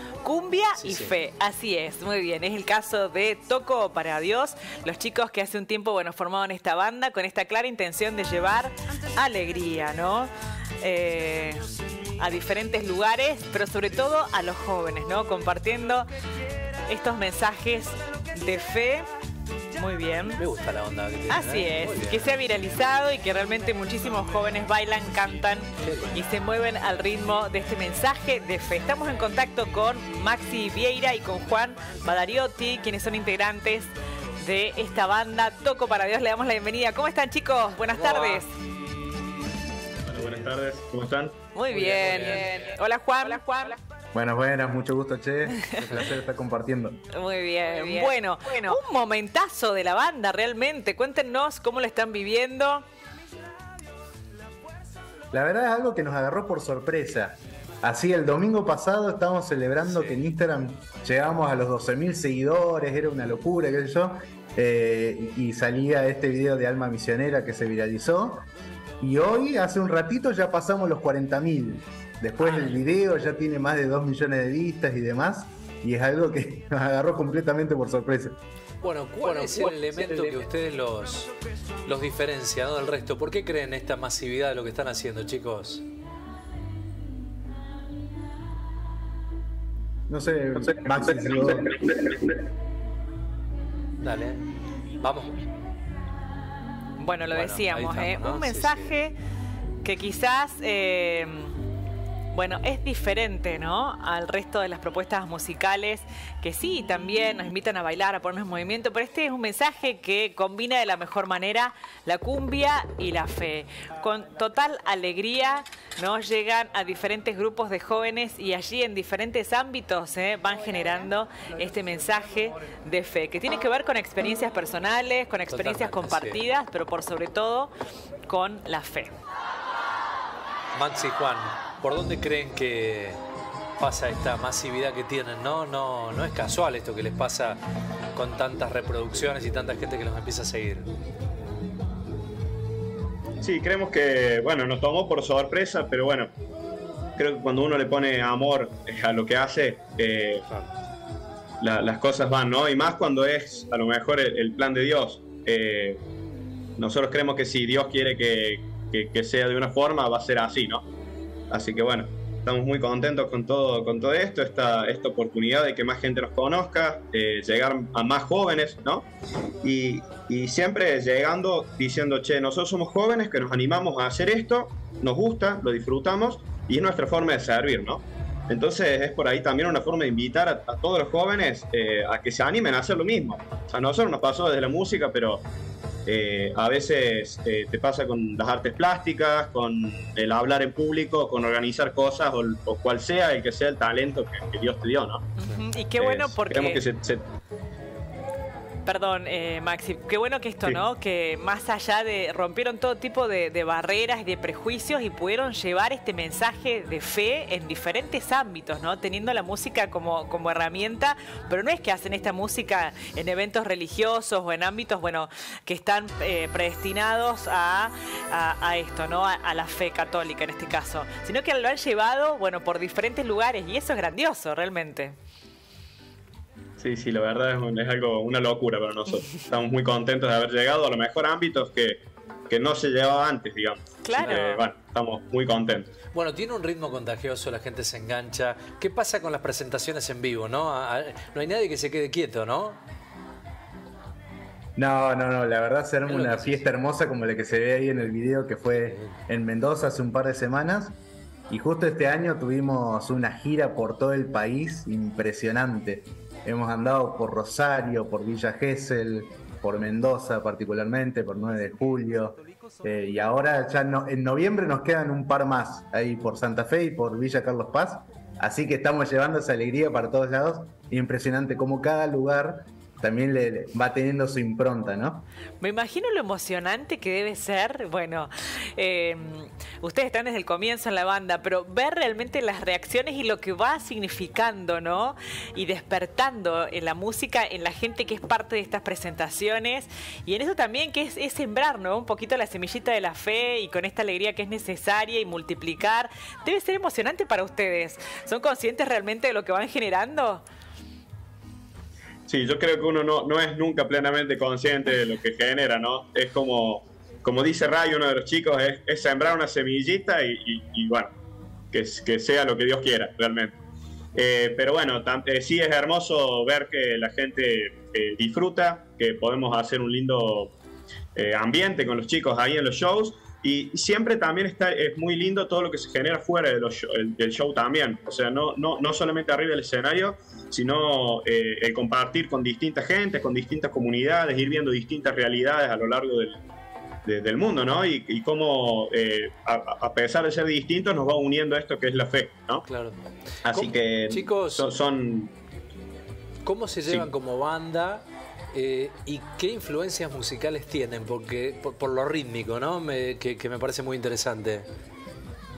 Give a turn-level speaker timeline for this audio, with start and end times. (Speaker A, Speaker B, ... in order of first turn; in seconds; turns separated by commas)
Speaker A: 0.2-11.6, Speaker B: 0.8-1.1, Speaker A: 12.2-16.1, Speaker A: 16.9-19.1, Speaker A: 19.8-20.4, Speaker B: 20.4-22.3, Speaker A: 21.3-38.5, Speaker B: 25.8-26.2, Speaker B: 37.9-38.4, Speaker C: 40.1-41.4, Speaker A: 41.5-43.8, Speaker B: 41.7-42.7, Speaker D: 44.1-47.0, Speaker A: 47.1-52.8, Speaker D: 55.3-68.4, Speaker D: 69.0-78.3, Speaker B: 72.4-72.8, Speaker B: 78.8-81.3, Speaker B: 81.8-85.8, Speaker D: 90.1-91.7, Speaker B: 94.0-94.5, Speaker B: 95.0-95.3, Speaker A: 97.0-99.1, Speaker B: 97.3-99.0, Speaker A: 99.8-101.5, Speaker A: 102.3-127.7, Speaker B: 125.5-126.4, Speaker A: 128.3-129.1, Speaker B: 130.7-133.2, Speaker B: 133.8-137.6, Speaker B: 138.1-140.9, Speaker C: 143.4-146.3, Speaker C: 147.2-150.4, Speaker C: 151.6-156.0, Speaker C: 156.8-160.8, Speaker C: 161.5-169.1, Speaker C: 169.6-185.4, Speaker C: 186.1-195.2, Speaker A: 195.4-196.9, Speaker C: 196.0-197.2, Speaker A: 198.8-225.1, Speaker C: 226.8-235.9, Speaker A: 233.8-234.9, Speaker B: 236.1-242.8, Speaker D: 244.8-250.9, Speaker B: 246.0-246.6, Speaker B: 248.7-249.2, Speaker D: 251.5-275.2, Speaker A: 275.6-300.4, Speaker C: 302.3-311.1, Speaker C: 311.7-313.6, Speaker C: 314.1-320.5, Speaker C: 321.1-336.4, Speaker C: 337.1-342.6, Speaker B: 342.6-344.7, Speaker C: 343.4-345.3, Speaker B: 346.4-354.6